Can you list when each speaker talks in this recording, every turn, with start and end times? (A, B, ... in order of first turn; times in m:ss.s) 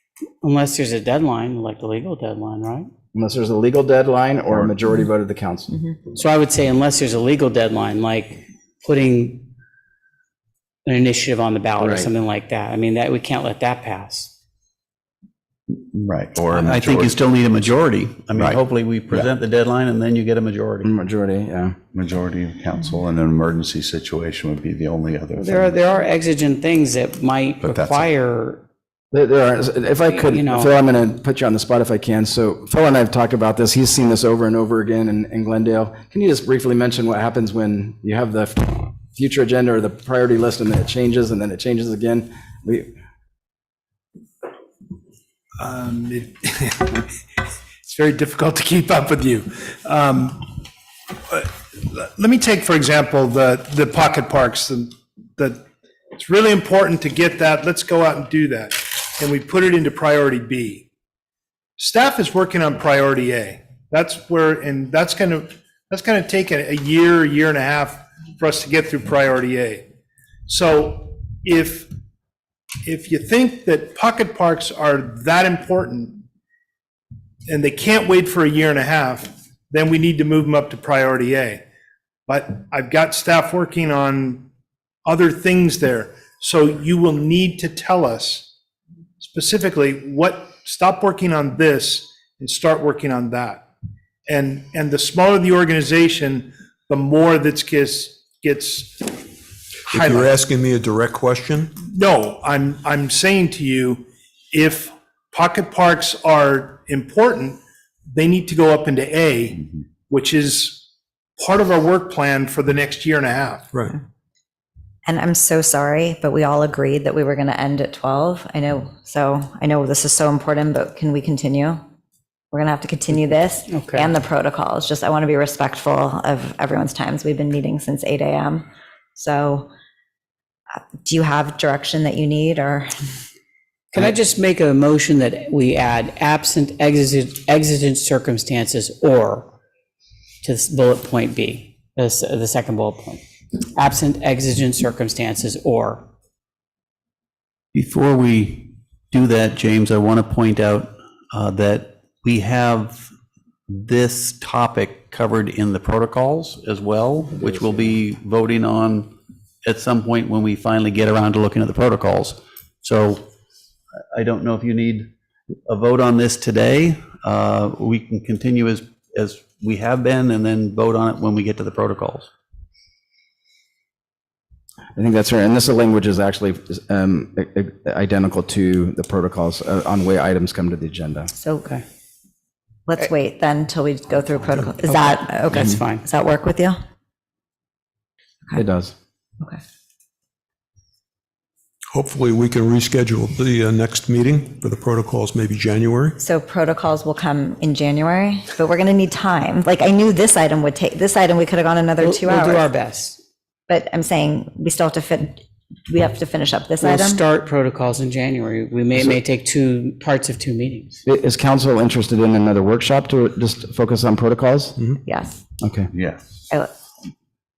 0:00.4-0:02.9 A
0:03.1-0:05.7 B
0:05.7-0:06.0 C
0:06.1-0:09.5 A
0:10.8-0:14.3 A
0:11.8-0:12.1 B
0:15.7-0:17.3 D
0:16.5-0:20.9 E
0:18.4-0:19.2 D
0:20.8-0:21.8 B
0:21.9-0:25.8 D
0:25.4-0:28.6 A
0:27.6-0:28.1 D
0:29.1-0:42.9 B
0:30.1-0:30.7 A
0:45.6-0:47.1 F
0:47.8-0:50.5 F
0:51.3-0:55.6 F
0:56.2-1:00.8 F
1:01.8-1:09.8 F
1:10.5-1:11.9 F
1:12.8-1:16.2 F
1:17.5-1:21.6 F
1:22.3-1:24.4 F
1:25.0-1:28.5 F
1:29.2-1:33.6 F
1:34.3-1:39.2 F
1:39.9-1:41.7 G
1:39.9-1:40.3 F
1:41.8-1:47.6 F
1:48.1-1:49.6 F
1:50.1-1:50.8 F
1:51.4-1:53.7 F
1:55.1-2:01.8 C
2:02.5-2:09.7 C
2:03.7-2:04.1 A
2:11.0-2:12.9 C
2:13.9-2:19.5 A
2:20.4-2:23.2 A
2:23.7-2:26.1 A
2:27.7-2:33.1 E
2:33.7-2:39.1 E
2:39.6-2:43.2 E
2:44.1-2:45.1 E
2:45.7-2:52.3 E
2:55.0-3:01.3 B
3:01.4-3:01.7 C
3:02.9-3:06.8 C
3:04.9-3:06.0 A
3:08.5-3:08.9 B
3:11.9-3:16.2 G
3:16.2-3:22.7 C
3:22.0-3:23.2 A
3:23.7-3:27.2 C
3:26.8-3:31.0 A
3:31.1-3:34.8 B
3:35.0-3:35.4 C
3:35.6-3:35.9 B
3:35.9-3:36.2 D